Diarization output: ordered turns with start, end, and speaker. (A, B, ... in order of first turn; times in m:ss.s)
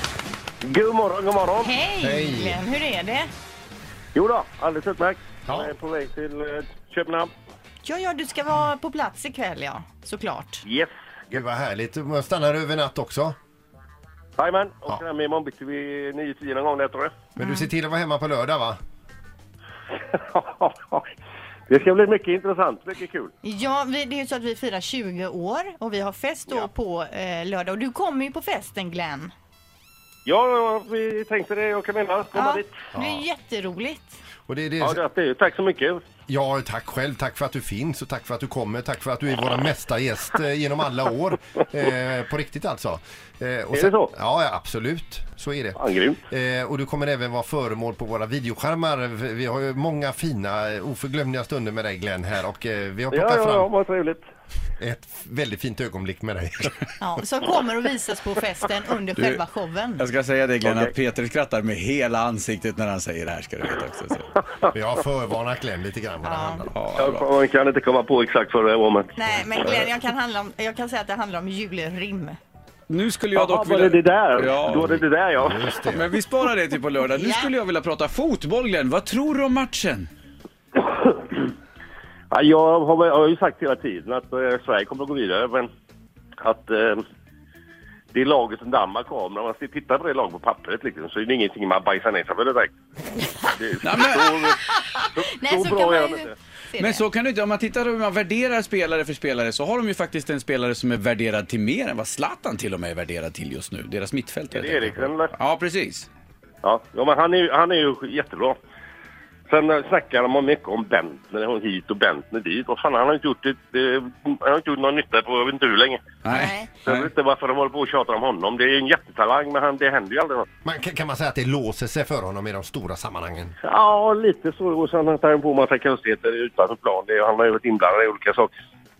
0:00.6-0:01.7 A
0:01.6-0:03.3 B
0:02.0-0:02.6 C
0:04.2-0:07.3 A
0:07.8-0:10.6 B
0:10.6-0:11.4 A
0:11.3-0:13.4 C
0:14.4-0:17.2 A
0:17.4-0:18.8 C
0:17.4-0:17.7 B
0:20.1-0:21.1 A
0:21.7-0:23.3 A
0:23.4-0:29.3 B
0:30.2-0:32.8 A
0:32.3-0:34.2 B
0:32.9-0:33.2 C
0:34.5-0:35.0 C
0:34.8-0:36.0 A
0:36.3-0:53.7 C
0:43.7-0:44.1 A
0:45.8-0:46.2 A
0:53.1-0:54.2 A
0:54.8-0:56.8 C
0:57.0-1:00.0 B
0:59.2-0:59.4 D
1:00.0-1:04.3 D
1:04.7-1:06.7 C
1:06.2-1:06.6 B
1:06.7-1:07.3 D
1:07.0-1:09.6 A
1:09.2-1:12.4 B
1:12.9-1:15.0 D
1:13.3-1:15.7 A
1:15.4-1:16.1 C
1:15.8-1:20.1 D
1:17.2-1:17.5 B
1:20.8-1:21.5 A
1:22.3-1:25.7 A
1:26.4-1:27.0 A
1:28.1-1:32.7 A
1:33.5-1:34.6 A
1:33.8-1:34.3 D
1:34.7-1:37.0 B
1:35.2-1:36.3 A
1:36.8-1:46.1 D
1:44.5-1:45.3 A
1:46.6-1:48.6 A
1:49.5-1:56.1 A
1:56.2-1:57.1 D
1:56.3-1:56.7 B
1:56.9-2:00.4 A
2:00.6-2:03.6 C
2:03.6-2:08.5 A